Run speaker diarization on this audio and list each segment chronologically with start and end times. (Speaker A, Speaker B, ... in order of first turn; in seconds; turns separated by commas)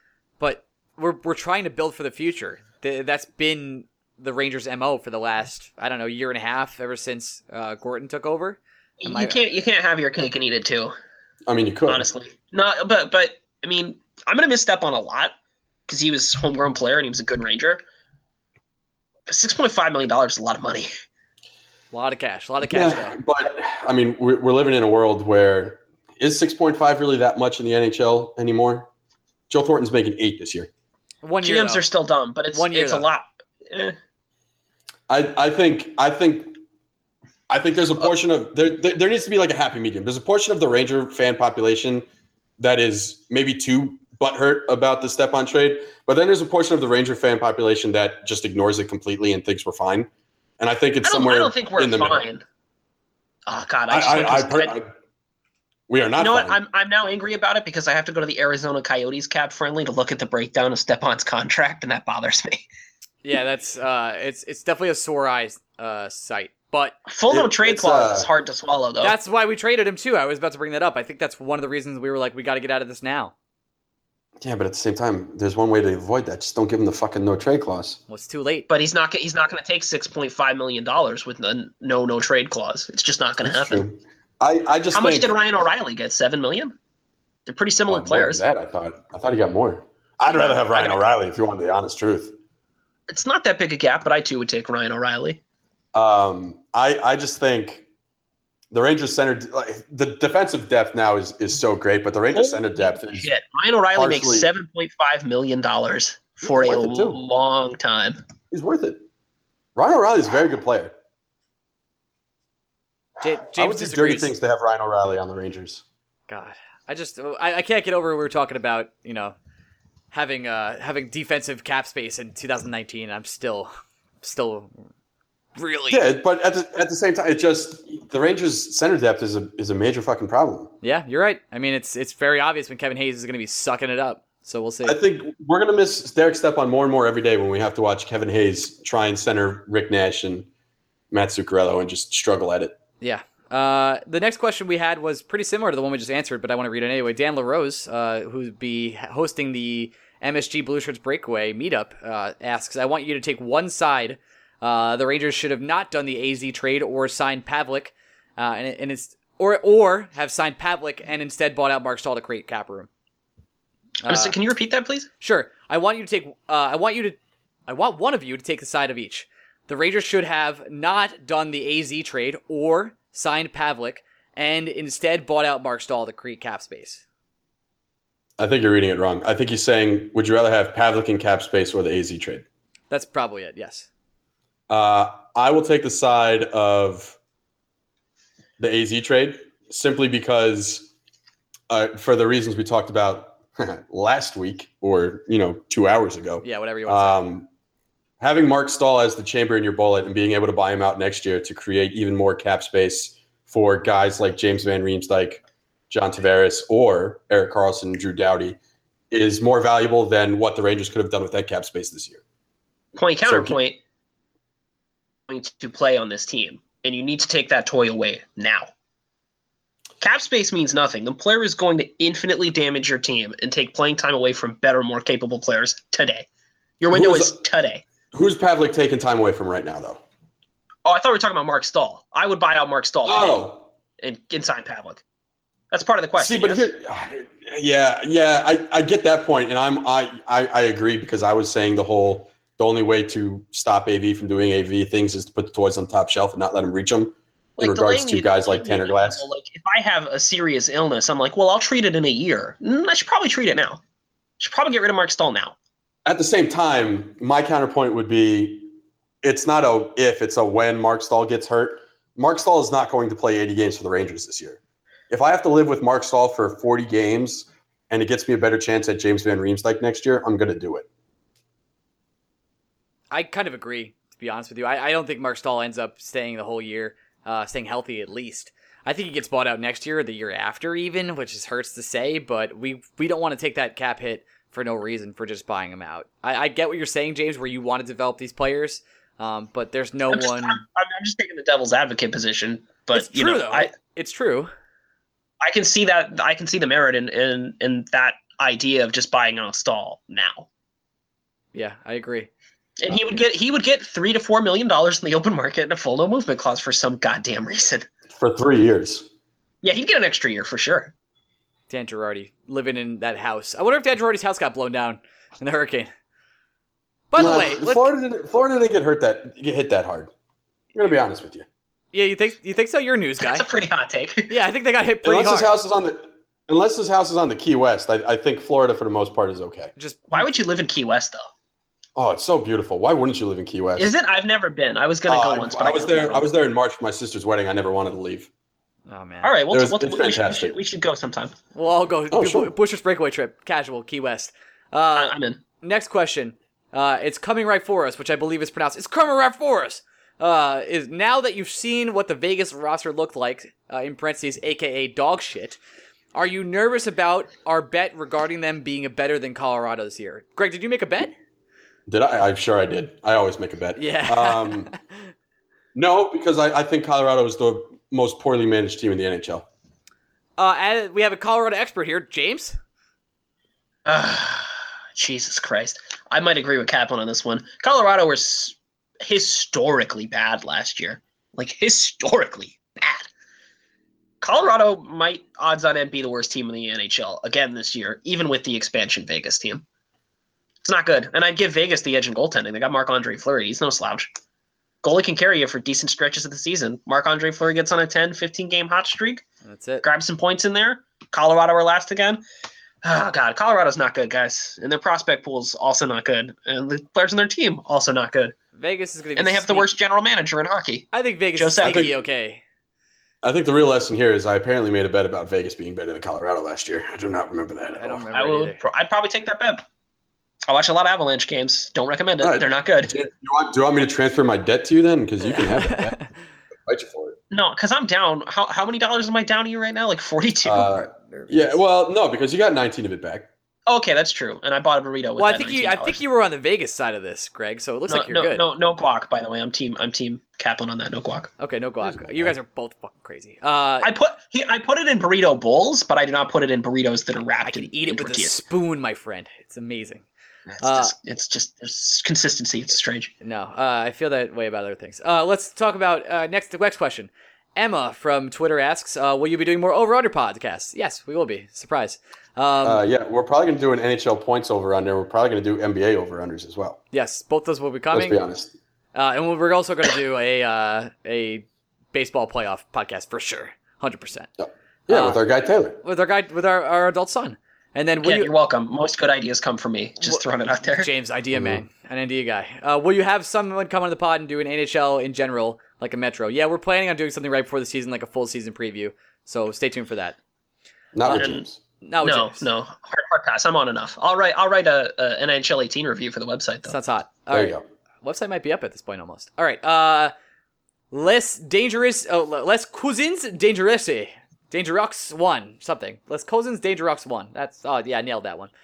Speaker A: 0.4-9.4, Speaker B: 9.0-10.9, Speaker C: 11.5-12.1, Speaker B: 11.9-15.3, Speaker B: 15.9-17.8, Speaker B: 19.3-20.9, Speaker A: 21.9-23.2, Speaker C: 22.6-28.9, Speaker C: 29.5-30.7, Speaker A: 31.2-31.8, Speaker B: 31.4-34.0, Speaker A: 32.5-33.1, Speaker C: 35.1-36.6, Speaker C: 37.5-42.0, Speaker C: 42.6-52.2, Speaker B: 51.0-52.4, Speaker B: 53.5-54.7, Speaker C: 53.9-54.9, Speaker C: 55.9-56.5, Speaker B: 56.2-62.6, Speaker A: 63.2-67.0, Speaker B: 67.1-69.2, Speaker C: 67.3-68.3, Speaker A: 69.0-73.3, Speaker C: 74.4-78.0, Speaker A: 78.1-78.7, Speaker B: 78.7-83.8, Speaker C: 83.4-85.3, Speaker B: 84.9-86.7, Speaker B: 87.5-88.4, Speaker C: 87.9-92.3, Speaker B: 90.3-91.0, Speaker B: 93.1-95.4, Speaker C: 95.9-97.8, Speaker C: 98.7-103.3, Speaker B: 102.3-108.2, Speaker C: 103.9-104.5, Speaker C: 106.4-107.2, Speaker C: 108.5-109.0, Speaker C: 109.8-110.9, Speaker A: 113.2-114.3, Speaker C: 113.5-115.8, Speaker A: 116.3-119.3, Speaker A: 120.1-123.7, Speaker A: 124.2-124.7, Speaker A: 125.6-126.1, Speaker C: 125.9-130.7, Speaker A: 130.8-135.0, Speaker C: 134.8-140.5, Speaker C: 141.1-142.8, Speaker A: 143.0-162.9, Speaker A: 164.0-164.3, Speaker B: 164.1-165.1, Speaker A: 165.2-177.0, Speaker C: 178.4-182.4, Speaker A: 182.9-183.9, Speaker C: 184.7-187.2, Speaker C: 188.6-190.9, Speaker C: 191.7-197.5, Speaker A: 196.4-197.2, Speaker C: 198.2-208.6, Speaker C: 209.1-212.2, Speaker B: 212.9-213.8, Speaker C: 213.2-213.6, Speaker B: 215.3-218.7, Speaker B: 220.0-226.2, Speaker B: 226.8-227.8, Speaker C: 226.9-227.3, Speaker C: 228.1-230.0, Speaker B: 230.8-233.4, Speaker C: 233.0-233.6, Speaker B: 234.0-235.0, Speaker B: 235.7-236.7, Speaker C: 236.2-249.2, Speaker B: 247.6-253.8, Speaker B: 254.4-255.5, Speaker C: 256.1-258.7, Speaker C: 259.2-264.6, Speaker C: 265.1-270.9, Speaker A: 273.1-290.6, Speaker B: 290.1-293.7, Speaker A: 292.9-294.5, Speaker B: 295.4-300.5, Speaker A: 301.5-302.3, Speaker B: 302.8-307.9, Speaker C: 308.1-309.1, Speaker B: 309.6-310.9, Speaker A: 311.7-315.9, Speaker A: 317.1-317.9, Speaker C: 317.1-320.1, Speaker C: 320.7-321.4, Speaker A: 321.9-323.4, Speaker B: 323.2-324.3, Speaker A: 324.3-325.6, Speaker C: 325.0-329.7, Speaker A: 329.8-330.1, Speaker B: 330.1-331.2, Speaker C: 331.9-333.9, Speaker B: 333.8-336.3, Speaker C: 335.1-338.3, Speaker A: 338.9-339.4, Speaker B: 339.2-341.3, Speaker C: 339.5-340.5, Speaker A: 341.5-355.6, Speaker C: 342.1-342.5, Speaker B: 344.9-345.4, Speaker A: 356.1-361.1, Speaker C: 361.9-364.7, Speaker A: 363.8-364.8, Speaker C: 365.7-369.4, Speaker A: 370.4-372.6, Speaker B: 373.9-383.1, Speaker B: 384.2-389.6, Speaker B: 390.6-394.1, Speaker B: 394.8-399.2, Speaker A: 399.4-399.8, Speaker B: 399.8-402.2, Speaker B: 402.8-408.3, Speaker A: 408.6-409.7, Speaker B: 409.1-411.9, Speaker A: 410.9-412.4, Speaker C: 411.6-411.9, Speaker C: 413.2-418.0, Speaker A: 417.7-418.6, Speaker B: 418.1-419.6, Speaker B: 420.5-422.9, Speaker C: 422.2-426.0, Speaker A: 425.2-426.1, Speaker C: 426.6-427.1, Speaker B: 427.3-430.8, Speaker C: 430.4-433.3, Speaker A: 431.1-431.5, Speaker B: 433.7-436.0, Speaker A: 435.2-438.4, Speaker B: 437.9-441.3, Speaker A: 441.4-443.9, Speaker C: 441.8-442.3, Speaker B: 443.8-448.4, Speaker A: 447.4-450.0, Speaker B: 450.5-453.1, Speaker A: 450.6-450.9, Speaker A: 453.2-462.8, Speaker C: 462.6-466.8, Speaker A: 466.9-468.2, Speaker C: 467.9-468.5, Speaker A: 468.9-474.3, Speaker C: 474.4-475.8, Speaker A: 474.9-475.2, Speaker A: 475.8-478.3, Speaker B: 478.0-480.9, Speaker A: 480.0-490.2, Speaker C: 481.3-481.6, Speaker C: 490.9-491.6, Speaker B: 491.1-491.4, Speaker A: 491.8-492.4, Speaker B: 492.0-496.7, Speaker A: 496.7-500.1, Speaker C: 497.3-497.6, Speaker A: 500.9-508.5